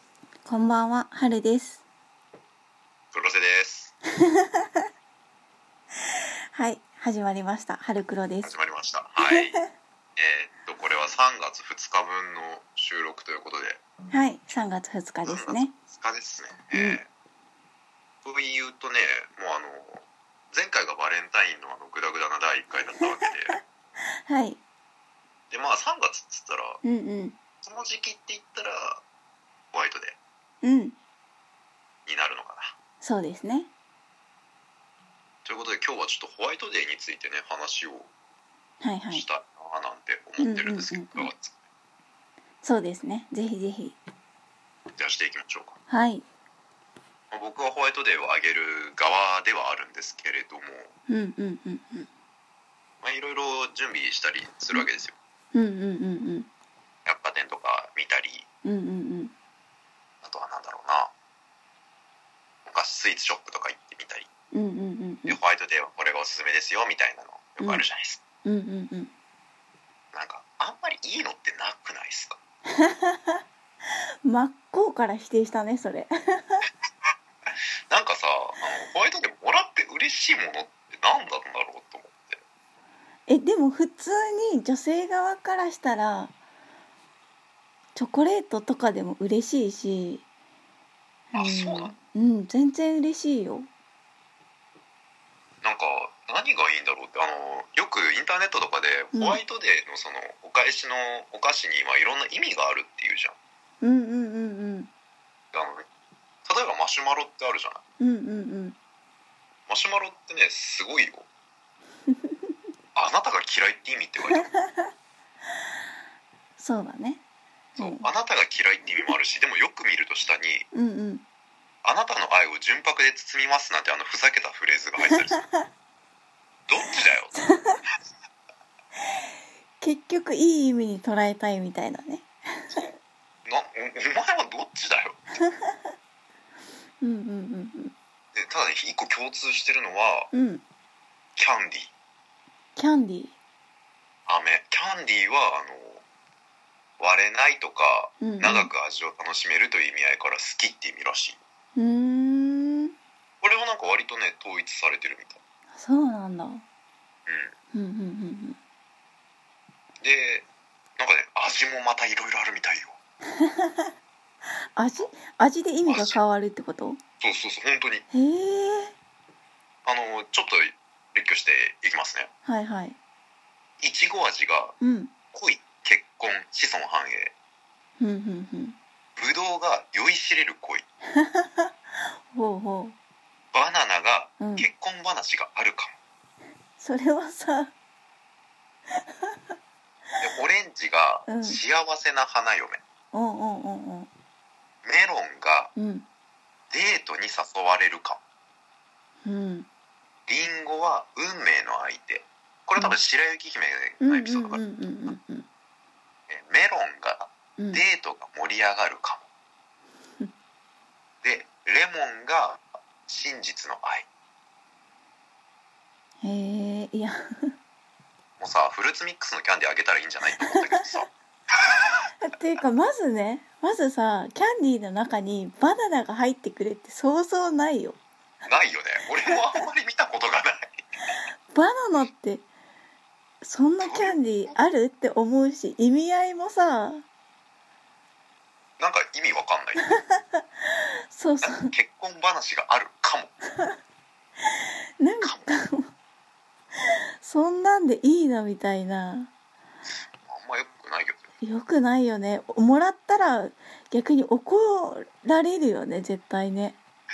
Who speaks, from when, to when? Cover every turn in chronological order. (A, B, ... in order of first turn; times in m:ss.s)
0:00.5-0:01.8 A
0:03.1-0:03.9 B
0:04.4-0:04.8 A
0:06.6-0:08.5 A
0:08.4-0:09.6 B
0:09.3-0:09.6 A
0:10.2-0:13.8 B
0:14.1-0:15.7 A
0:15.3-0:17.1 B
0:16.7-0:17.0 A
0:18.2-0:23.6 B
0:24.3-0:24.6 A
0:25.5-0:26.8 B
0:26.8-0:27.4 A
0:27.6-0:29.0 B
0:29.7-0:30.2 B
0:30.6-0:31.0 A
0:32.1-0:32.7 B
0:33.0-0:33.7 A
0:35.4-0:38.1 B
0:38.8-0:39.2 A
0:39.1-0:41.6 B
0:40.4-0:41.3 A
0:42.6-0:44.0 A
0:45.0-0:45.8 B
0:45.9-0:46.3 A
0:47.3-0:50.9 B
0:51.1-0:52.1 A
0:53.0-0:55.1 B
0:55.5-0:56.5 A
0:57.1-0:58.4 B
0:58.6-0:59.3 A
1:00.2-1:01.1 B
1:02.7-1:04.3 B
1:04.5-1:05.4 A
1:05.3-1:08.2 B
1:08.4-1:09.1 A
1:10.1-1:12.4 B
1:12.8-1:13.4 A
1:14.2-1:16.7 A
1:17.9-1:22.4 B
1:23.3-1:26.3 A
1:28.0-1:30.3 A
1:31.3-1:33.7 A
1:31.3-1:31.9 B
1:35.6-1:43.4 B
1:39.1-1:39.4 A
1:43.8-1:44.9 A
1:45.5-1:45.8 B
1:46.5-1:47.8 B
1:48.0-1:48.8 A
1:49.7-1:51.3 B
1:53.0-1:54.5 B
1:54.3-1:54.9 A
1:56.6-1:57.2 A
1:57.8-1:58.1 A
1:57.8-2:00.7 B
2:00.7-2:01.2 A
2:01.8-2:05.4 B
2:05.1-2:05.7 A
2:06.7-2:07.7 B
2:07.4-2:07.8 A
2:09.8-2:12.9 A
2:13.5-2:15.2 B
2:15.5-2:15.8 A
2:17.0-2:17.9 A
2:18.4-2:20.3 B
2:20.3-2:20.6 A
2:21.4-2:21.9 B
2:22.8-2:23.4 A
2:24.3-2:26.0 B
2:27.0-2:31.4 B
2:28.2-2:28.7 A
2:31.8-2:32.9 A
2:33.4-2:35.4 B
2:35.8-2:36.6 A
2:37.3-2:37.5 B
2:37.7-2:38.6 A
2:40.0-2:40.5 B
2:41.0-2:43.0 B
2:43.4-2:43.9 A
2:44.8-2:47.0 A
2:45.9-2:46.2 B
2:47.2-2:48.0 B
2:48.1-2:48.9 A
2:49.8-2:52.3 B
2:52.4-2:53.0 A
2:53.8-2:54.8 B
2:54.8-2:55.1 A
2:55.3-2:57.3 B
2:58.0-2:58.8 A
2:59.2-3:00.8 B
3:01.2-3:01.7 A
3:02.3-3:03.0 A
3:03.5-3:06.0 B
3:04.4-3:04.7 A
3:06.8-3:07.7 A
3:10.2-3:12.8 B
3:11.3-3:11.6 A
3:13.1-3:14.1 A
3:14.8-3:15.7 B
3:15.8-3:16.1 A
3:16.7-3:18.2 B
3:19.2-3:19.7 A
3:20.3-3:24.6 B
3:24.0-3:25.5 A
3:26.3-3:29.3 B
3:27.6-3:27.8 A
3:31.2-3:34.1 B
3:36.2-3:37.2 A
3:38.4-3:41.1 B
3:42.2-3:48.0 A
3:48.5-3:50.8 B
3:49.3-3:49.6 A
3:51.5-3:52.5 A
3:53.4-3:57.0 A
3:53.8-3:54.2 B
3:58.8-3:59.9 B
3:59.9-4:01.8 A
4:01.4-4:03.3 B
4:04.6-4:05.9 A
4:07.2-4:09.3 A
4:10.3-4:11.3 B
4:11.4-4:16.8 A